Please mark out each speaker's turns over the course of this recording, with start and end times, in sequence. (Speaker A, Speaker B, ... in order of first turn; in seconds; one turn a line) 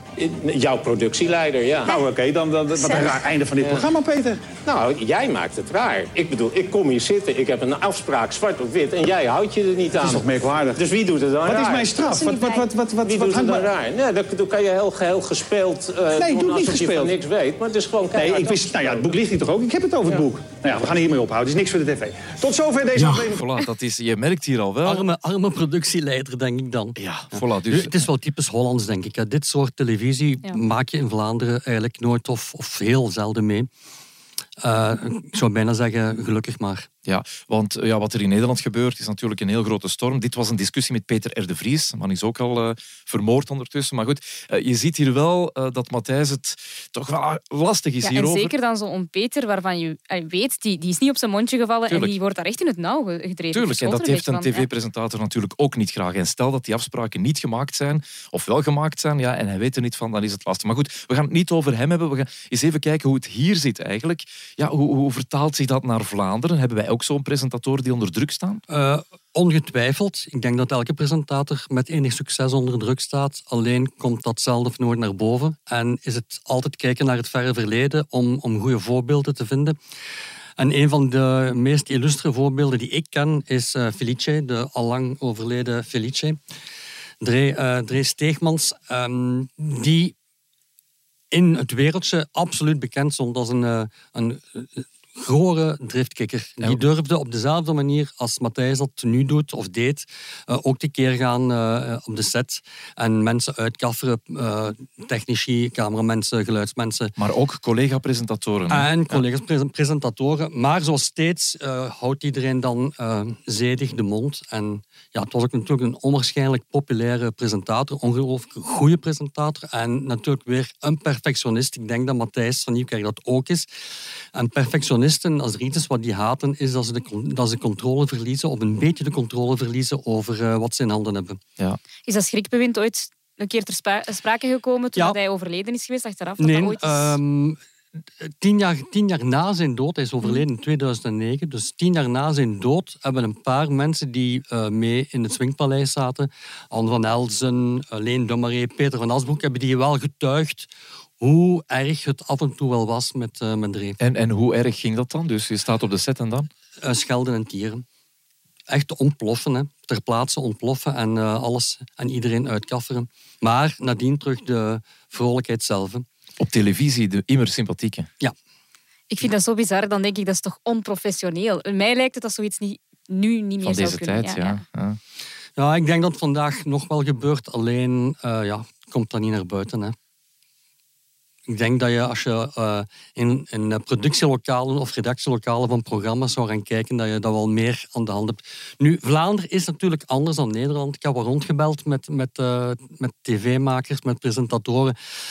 Speaker A: 0.2-1.9
Speaker B: 1.8-4.4
Speaker A: 2.9-3.8
Speaker A: 4.6-19.2
Speaker B: 10.0-10.8
Speaker B: 11.4-13.7
Speaker C: 12.2-12.6
Speaker B: 16.1-17.2
Speaker B: 18.1-23.4
Speaker D: 23.0-25.0
Speaker E: 24.8-33.7
Speaker D: 27.0-28.0
Speaker E: 34.6-36.9
Speaker D: 37.0-48.5
Speaker C: 48.0-54.7
Speaker D: 51.9-52.1
Speaker D: 53.5-68.6
Speaker E: 68.7-79.8
Speaker E: 80.6-86.4
Speaker E: 87.2-90.1
Speaker E: 91.3-107.1
Speaker D: 107.2-109.2
Speaker E: 108.7-123.7
Speaker E: 124.3-131.4
Speaker C: 132.1-137.2
Speaker E: 136.4-137.6
Speaker E: 138.2-150.7
Speaker E: 151.2-154.0
Speaker D: 154.0-156.5
Speaker E: 156.8-157.8
Speaker E: 158.7-166.0
Speaker D: 166.4-168.1
Speaker C: 169.1-174.6
Speaker D: 173.6-175.0
Speaker E: 175.6-179.9
Speaker E: 181.5-194.9